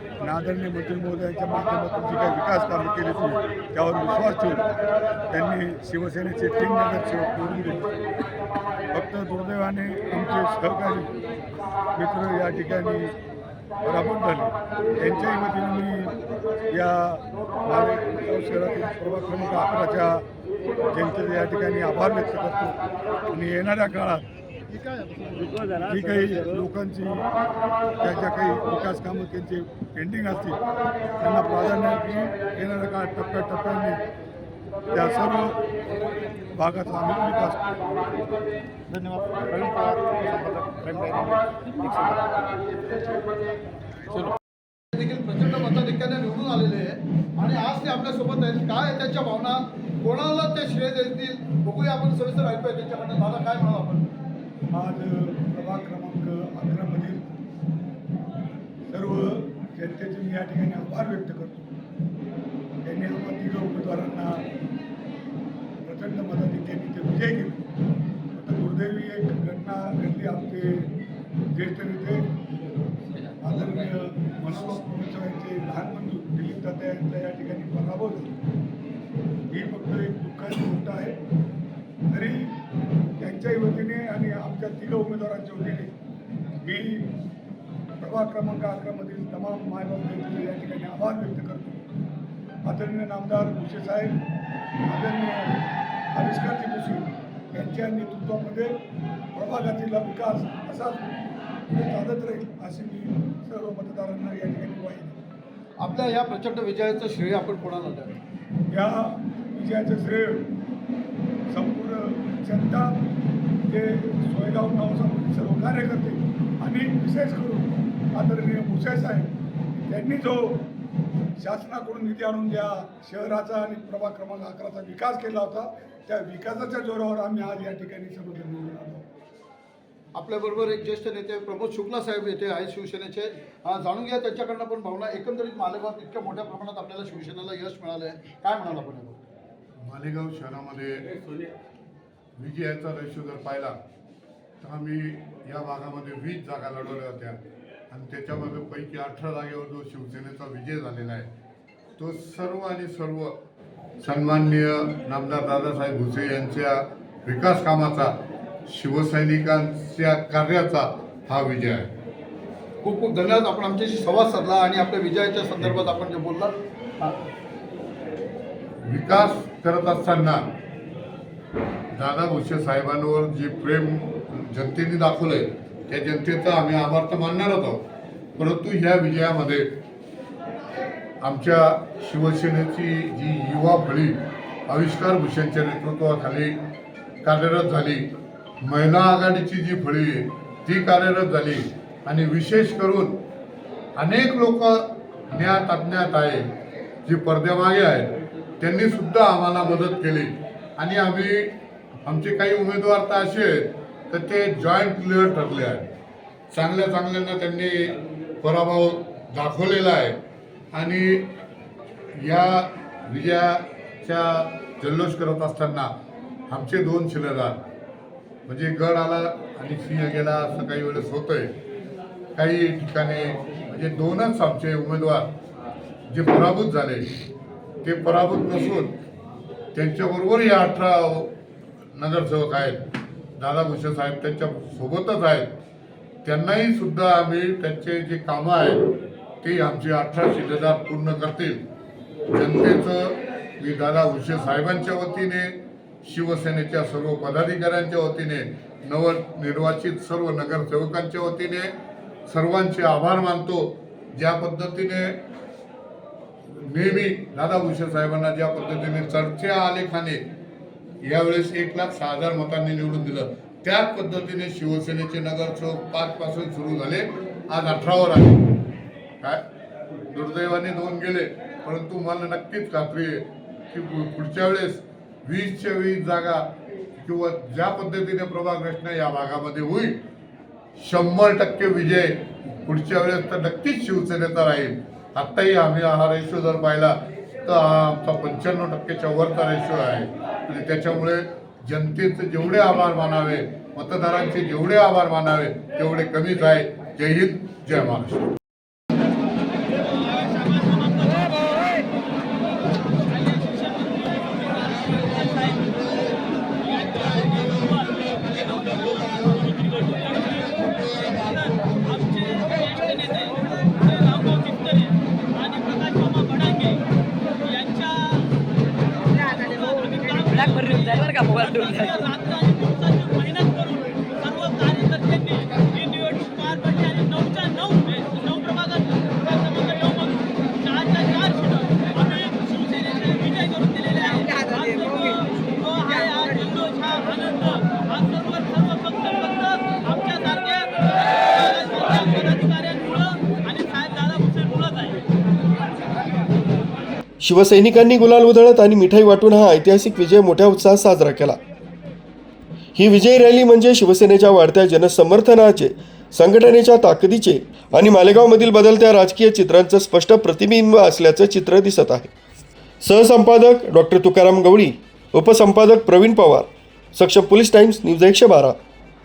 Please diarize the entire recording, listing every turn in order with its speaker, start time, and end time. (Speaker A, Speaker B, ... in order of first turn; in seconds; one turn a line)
Speaker A: 0.2-4.6
Speaker A: 5.3-7.9
Speaker A: 8.9-11.1
Speaker A: 11.9-13.1
Speaker A: 13.8-16.1
Speaker A: 16.7-20.2
Speaker A: 20.9-22.8
Speaker A: 23.3-24.2
Speaker B: 24.8-25.8
Speaker A: 25.7-27.3
Speaker A: 28.0-30.6
Speaker A: 31.2-34.0
Speaker A: 34.9-35.6
Speaker A: 36.5-37.8
Speaker B: 38.9-42.5
Speaker C: 44.9-54.1
Speaker A: 54.7-57.3
Speaker A: 58.9-61.7
Speaker A: 62.8-64.4
Speaker A: 65.8-67.6
Speaker A: 68.3-70.9
Speaker A: 71.5-72.2
Speaker A: 73.4-78.3
Speaker A: 79.5-81.2
Speaker A: 82.1-82.6
Speaker A: 83.2-85.9
Speaker A: 86.6-87.1
Speaker A: 88.0-91.8
Speaker A: 92.6-94.2
Speaker A: 94.9-95.6
Speaker A: 96.1-98.7
Speaker A: 99.3-101.1
Speaker A: 101.7-105.2
Speaker C: 105.8-108.2
Speaker A: 108.7-110.5
Speaker A: 111.5-113.0
Speaker A: 113.7-119.3
Speaker A: 119.9-120.7
Speaker A: 121.4-129.1
Speaker C: 130.1-139.3
Speaker D: 139.8-141.1
Speaker D: 142.4-143.7
Speaker D: 144.6-147.4
Speaker D: 147.9-151.3
Speaker D: 152.0-153.3
Speaker D: 154.0-158.1
Speaker D: 158.7-161.9
Speaker C: 162.8-167.2
Speaker D: 168.8-170.4
Speaker D: 171.9-177.8
Speaker D: 178.4-179.7
Speaker D: 181.2-184.2
Speaker D: 184.7-186.6
Speaker D: 187.2-188.1
Speaker D: 188.6-193.2
Speaker D: 194.0-196.4
Speaker D: 197.1-201.5
Speaker D: 202.0-205.9
Speaker D: 206.5-210.2
Speaker D: 210.7-211.3
Speaker D: 212.2-215.9
Speaker D: 216.5-217.6
Speaker D: 218.5-221.5
Speaker D: 222.3-225.3
Speaker D: 226.1-227.1
Speaker D: 227.8-228.9
Speaker D: 229.7-231.3
Speaker D: 231.9-232.8
Speaker D: 233.4-235.5
Speaker D: 236.2-238.9
Speaker D: 239.4-241.6
Speaker D: 242.3-245.5
Speaker D: 246.0-251.7
Speaker D: 252.3-255.1
Speaker D: 256.6-260.2
Speaker D: 261.1-268.6
Speaker D: 270.1-276.4
Speaker D: 277.0-280.0
Speaker D: 280.8-298.2
Speaker E: 319.9-322.3
Speaker F: 347.2-351.4
Speaker F: 352.8-362.1
Speaker F: 362.8-368.6